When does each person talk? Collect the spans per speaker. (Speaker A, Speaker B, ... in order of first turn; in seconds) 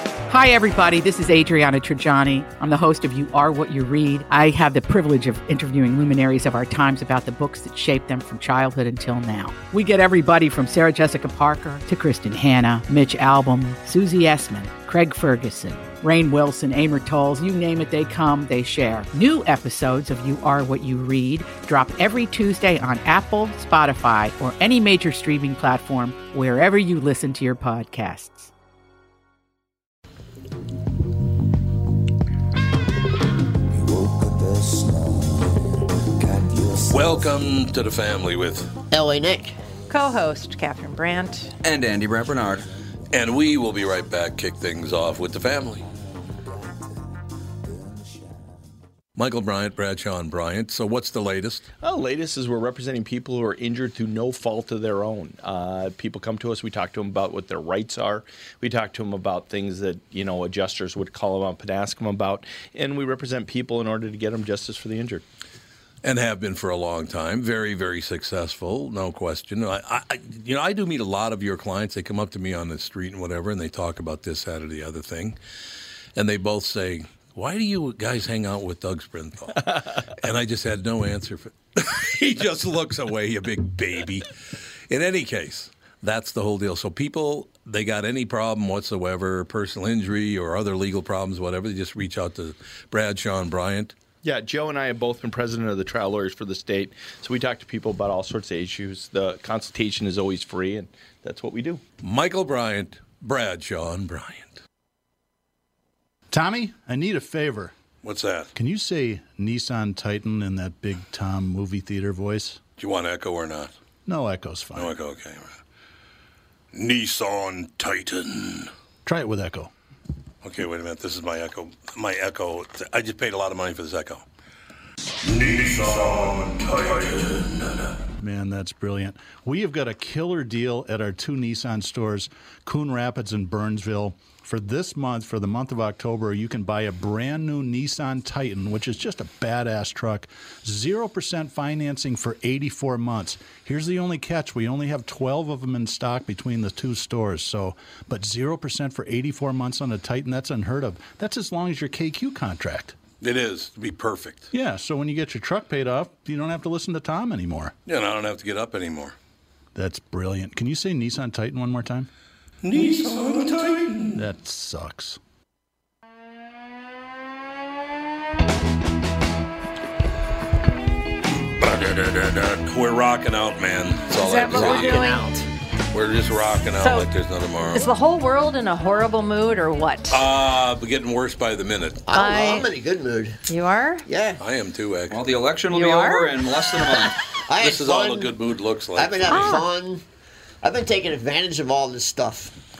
Speaker A: 0.3-28.5
Speaker B: 36.7-38.7, 43.1-45.9, 49.1-51.6, 66.0-75.4, 76.2-84.3, 84.9-93.9, 102.0-104.5, 108.0-108.5, 112.8-113.7, 114.8-115.5, 116.7-118.7, 120.4-124.2, 125.2-128.0, 153.2-154.5, 157.8-159.1, 162.6-164.2, 171.4-175.2, 175.9-177.9, 180.1-182.0, 184.4-185.3, 187.6-189.6
Speaker C: 38.9-39.5, 182.1-183.4, 184.1-184.4, 187.4-188.4, 188.9-190.0, 190.6-192.5
Speaker D: 39.9-41.5, 174.1-175.5, 176.8-177.1, 177.7-180.2, 182.1-182.7, 183.5-184.1, 185.7-186.3, 189.3-189.7
Speaker E: 41.6-42.6, 185.1-187.2
Speaker F: 51.8-65.2, 94.2-101.8
Speaker G: 106.3-107.7, 108.5-112.6, 114.0-114.9, 119.0-119.7, 128.2-152.9, 154.5-157.7, 159.7-162.1, 164.2-165.2